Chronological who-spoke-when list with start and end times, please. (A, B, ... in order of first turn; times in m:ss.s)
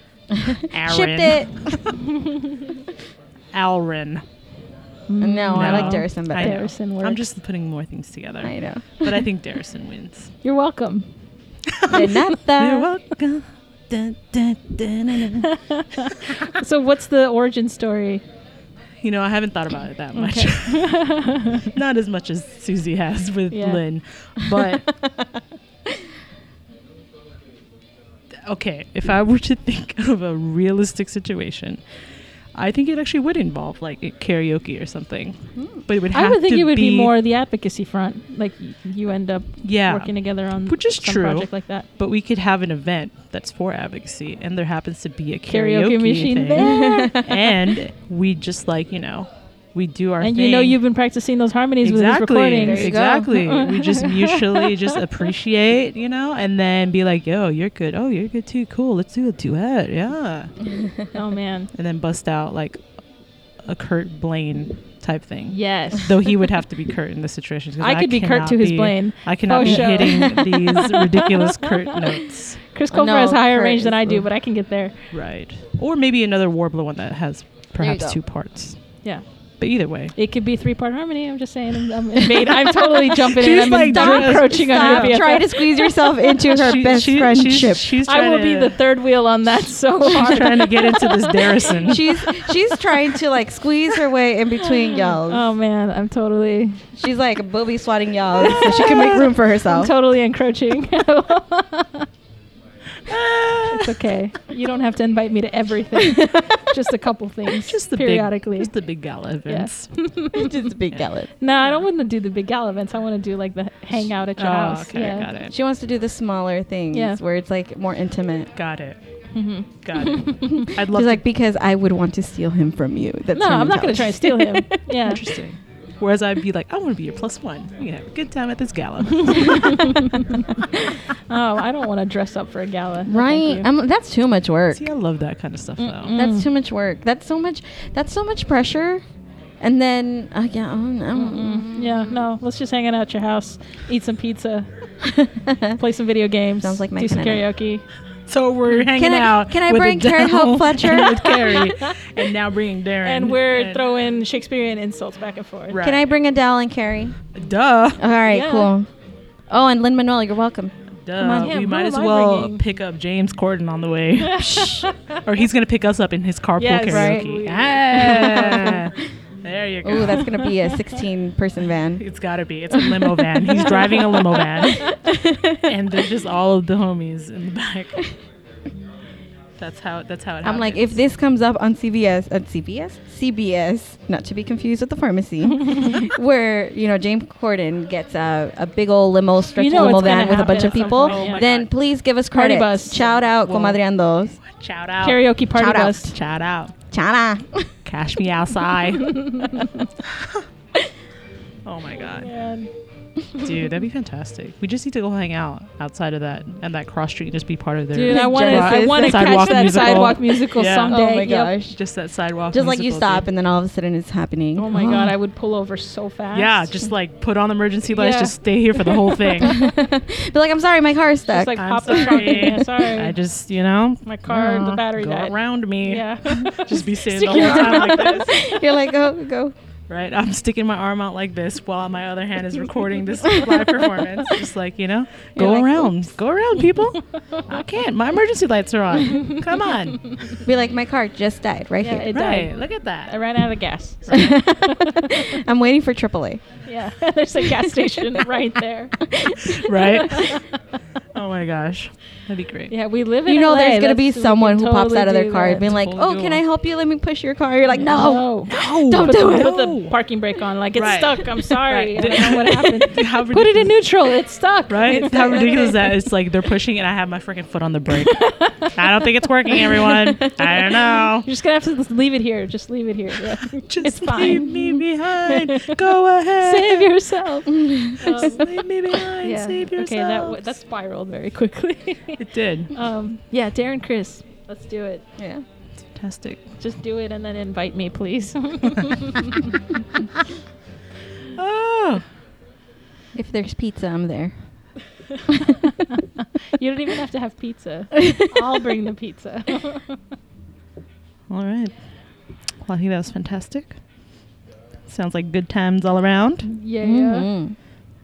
0:00.3-0:01.6 A
0:00.7-0:01.8 B
0:02.0-0:02.7 C
0:03.5-0:04.2 B
0:05.1-0:07.2 C
0:05.2-0:06.6 A
0:05.5-0:10.3 B
0:08.4-0:09.3 A
0:10.4-0:11.1 C
0:11.7-0:15.5 B
0:11.9-0:12.9 A
0:15.3-0:18.2 C
0:19.0-0:25.0 B
0:20.1-0:21.7 C
0:23.5-0:23.8 C
0:24.6-0:26.0 A
0:28.4-0:31.8 B
0:32.6-0:37.1 B
0:35.6-0:35.8 A
0:36.1-0:41.9 C
0:39.6-0:50.8 B
0:45.5-0:47.3 C
0:46.6-0:47.3 A
0:50.2-0:55.0 C
0:51.8-1:00.5 B
0:52.6-0:53.3 A
1:00.7-1:01.1 A
1:01.1-1:01.7 C
1:01.7-1:02.8 B
1:03.6-1:12.6 B
1:05.5-1:06.3 C
1:07.8-1:12.0 C
1:09.6-1:10.2 A
1:12.7-1:15.0 C
1:12.9-1:14.3 A
1:15.1-1:18.8 B
1:17.8-1:18.2 A
1:19.6-1:20.1 B
1:20.1-1:26.1 C
1:22.3-1:27.9 A
1:23.2-1:25.2 B
1:26.5-1:28.8 B
1:28.0-1:33.2 C
1:30.1-1:32.2 B
1:31.8-1:35.4 A
1:34.6-1:36.9 C
1:37.0-1:39.9 A
1:38.4-1:42.1 C
1:38.7-1:39.1 B
1:43.1-1:44.0 B
1:43.7-1:48.7 C
1:46.0-1:46.4 A
1:47.7-1:50.1 B
1:49.5-1:50.5 C
1:50.3-1:51.3 A
1:51.4-1:55.3 C
1:54.2-1:55.5 B
1:55.4-1:58.5 A
1:56.9-1:57.2 C
1:58.6-1:59.0 B
1:59.3-2:00.7 C
1:59.8-2:01.2 B
2:00.5-2:05.0 A
2:03.3-2:05.2 C
2:05.0-2:10.0 B
2:09.2-2:10.4 C
2:11.1-2:13.7 C
2:13.1-2:14.8 A
2:14.7-2:16.1 B
2:15.8-2:16.5 C
2:16.2-2:19.0 A
2:19.6-2:22.2 A
2:21.1-2:24.7 C
2:25.0-2:25.8 A
2:25.8-2:27.8 C
2:26.6-2:27.4 A
2:28.3-2:33.9 B
2:28.9-2:31.4 A
2:31.5-2:32.0 C
2:33.0-2:35.8 C
2:35.7-2:36.0 B
2:35.8-2:37.2 A
2:37.4-2:38.0 B
2:38.0-2:38.9 A
2:38.3-2:38.7 C
2:39.5-2:41.6 A
2:41.0-2:50.4 B
2:41.3-2:42.6 C
2:44.2-2:45.2 C
2:44.4-2:44.9 A
2:46.6-2:48.8 C
2:46.9-2:47.3 A
2:48.1-2:48.8 A
2:49.8-2:52.0 A
2:50.1-2:50.8 C
2:52.0-2:55.1 B
2:53.9-2:55.0 C
2:54.4-2:55.7 A
2:55.6-2:58.1 B
2:59.6-3:01.0 B
3:00.4-3:14.4 A
3:09.6-3:11.4 C
3:09.7-3:11.7 B
3:12.3-3:13.2 C
3:13.3-3:13.8 B
3:14.4-3:15.3 B
3:15.0-3:16.2 C
3:15.5-3:16.1 A
3:16.0-3:16.8 B
3:16.9-3:17.8 A
3:17.8-3:19.2 B
3:19.0-3:19.8 C
3:20.1-3:20.4 B
3:21.6-3:22.3 B
3:22.2-3:22.7 C
3:23.4-3:31.0 B
3:27.9-3:31.5 C
3:28.1-3:30.2 A
3:30.9-3:31.8 A
3:31.7-3:33.3 B
3:32.5-3:35.1 A
3:34.6-3:36.9 C
3:36.3-3:39.6 B
3:37.9-3:39.6 C
3:39.4-3:42.6 A
3:41.3-3:43.2 C
3:41.6-3:48.5 B
3:44.0-3:48.5 C
3:47.2-3:49.5 A
3:49.9-4:00.3 B
3:55.4-3:55.9 C
4:00.4-4:02.1 A
4:01.8-4:05.4 C
4:02.1-4:03.2 B
4:04.1-4:04.4 B
4:04.1-4:06.4 A
4:06.6-4:10.6 C
4:09.0-4:09.7 A
4:09.4-4:10.5 B
4:11.1-4:12.7 B
4:12.7-4:15.7 C
4:13.3-4:19.6 A
4:15.6-4:16.4 B
4:17.8-4:25.7 C
4:17.9-4:20.0 B
4:20.8-4:23.8 B
4:24.7-4:31.3 B
4:25.2-4:25.7 A
4:28.1-4:28.7 C
4:29.9-4:30.1 A
4:31.2-4:35.8 C
4:33.6-4:36.9 B
4:36.4-4:38.5 C
4:37.5-4:38.3 A
4:38.1-4:40.5 B
4:39.2-4:45.0 C
4:42.2-4:42.7 B
4:45.2-4:45.4 A
4:46.0-4:46.4 B
4:46.6-4:49.5 C
4:51.4-4:52.0 B
4:53.1-4:54.4 A
4:55.2-5:00.0 C
4:58.0-4:58.4 A
5:01.3-5:01.8 B
5:02.6-5:03.8 B
5:04.9-5:06.5 B
5:06.4-5:07.3 C
5:06.8-5:07.6 A